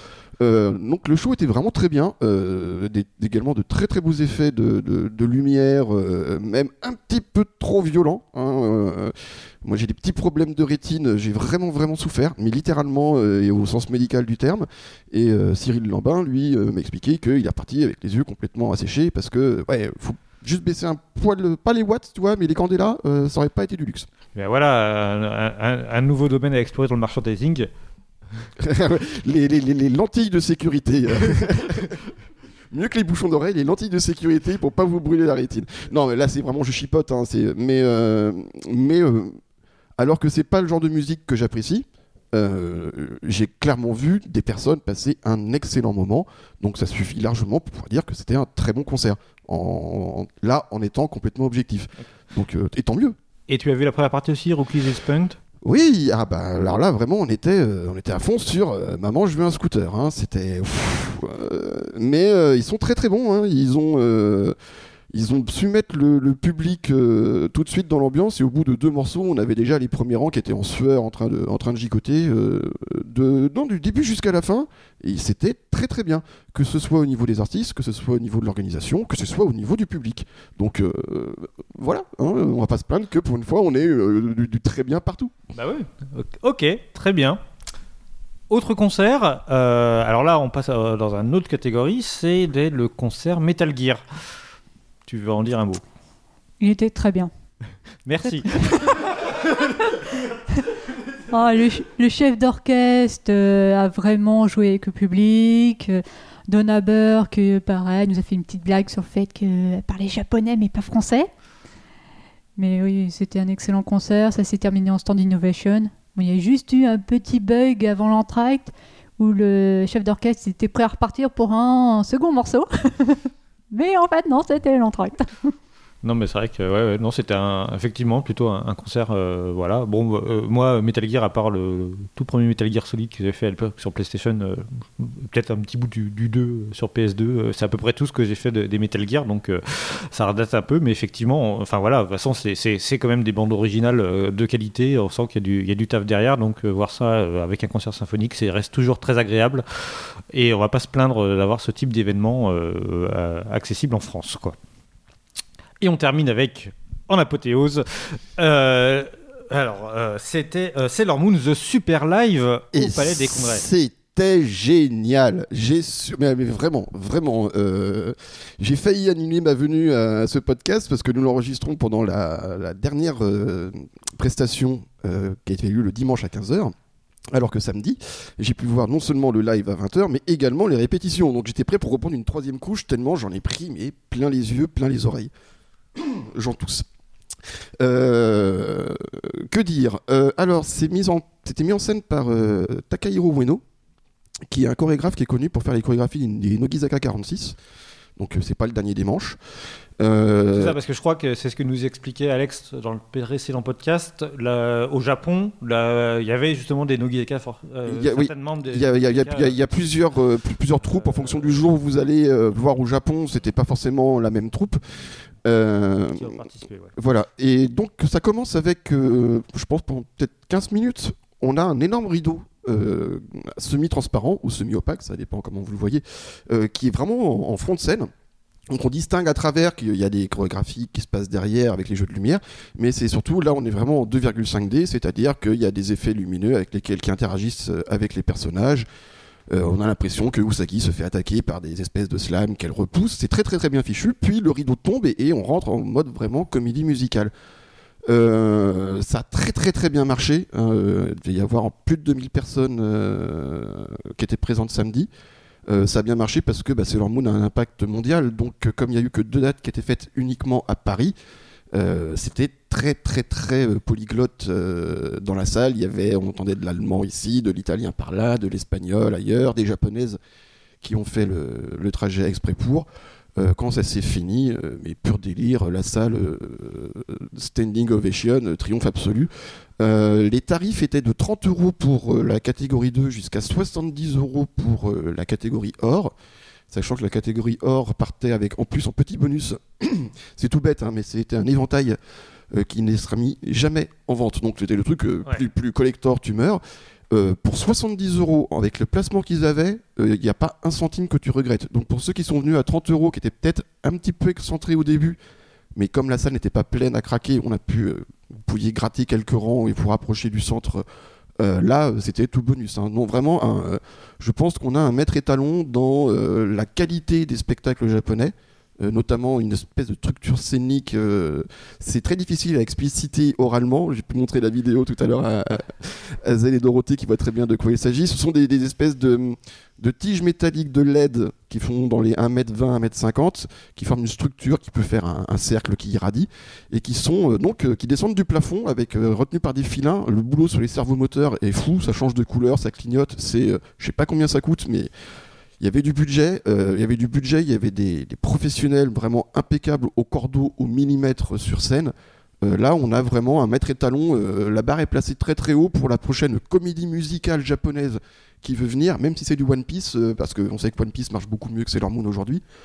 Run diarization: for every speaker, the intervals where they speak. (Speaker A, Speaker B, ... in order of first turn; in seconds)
Speaker A: 0.4-24.1, 28.6-32.1, 32.7-39.4, 40.0-53.1, 55.6-64.5, 65.1-85.3, 162.7-176.7, 177.3-185.3, 185.9-186.9, 187.8-193.6, 194.5-197.6, 198.2-199.4, 200.0-200.8, 207.9-214.8, 215.4-216.3, 217.0-228.1, 228.7-238.8, 239.5-247.3, 248.1-255.1, 255.7-261.1, 261.7-270.2, 270.8-286.1, 286.7-292.0, 292.5-296.6, 297.1-305.2, 305.7-310.8, 311.4-344.9, 345.6-362.4
Speaker B: 24.4-27.7, 53.5-55.4, 85.5-87.4, 88.5-94.0, 95.1-95.8, 98.0-100.1, 126.0-154.6, 155.8-163.6, 200.5-209.5, 210.9-211.4, 216.1-216.9
Speaker C: 96.6-97.3, 98.2-99.2, 99.8-100.1, 101.3-111.3, 112.6-125.5